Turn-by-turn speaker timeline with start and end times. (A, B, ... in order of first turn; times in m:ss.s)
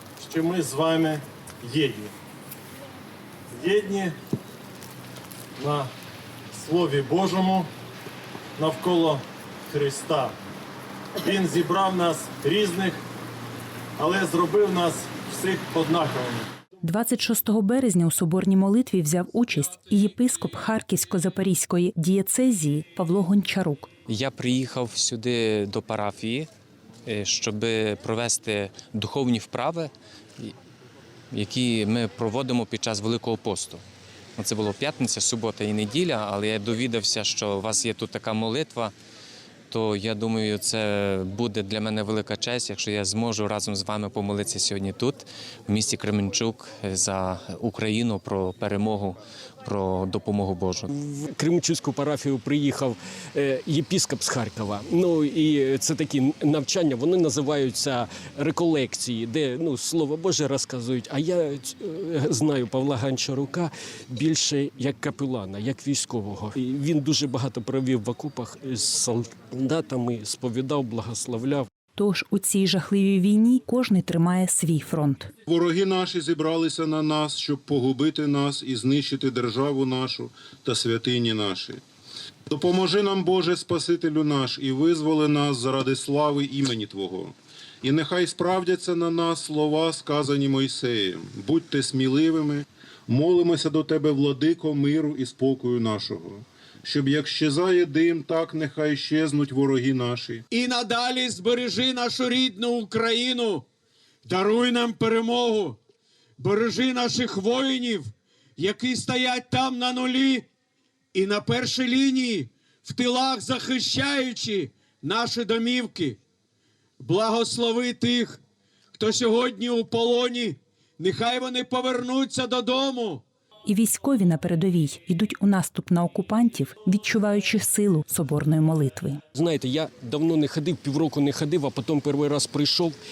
0:00.2-0:02.1 A
0:03.5-0:04.2 A
0:05.6-0:05.9 A
0:06.5-0:07.7 A
0:08.6-0:10.4 A
0:11.2-0:13.0 A
0:14.0-0:16.5 A
0:16.8-0:23.9 B
0:24.1-0:26.5 C
0:27.1-0:30.5 C
0:31.3-0:33.8 C
0:34.4-0:38.9 C
0:39.7-0:50.9 C
0:50.9-1:11.7 D
1:12.0-1:15.3 B
1:15.5-1:21.8 E
1:22.5-1:40.4 E
1:40.5-1:43.6 F
1:44.2-1:45.8 F
1:46.4-1:50.5 F
1:51.1-1:56.2 F
1:57.0-1:58.4 F
1:59.0-2:03.2 F
2:03.7-2:09.2 B
2:09.3-2:13.0 D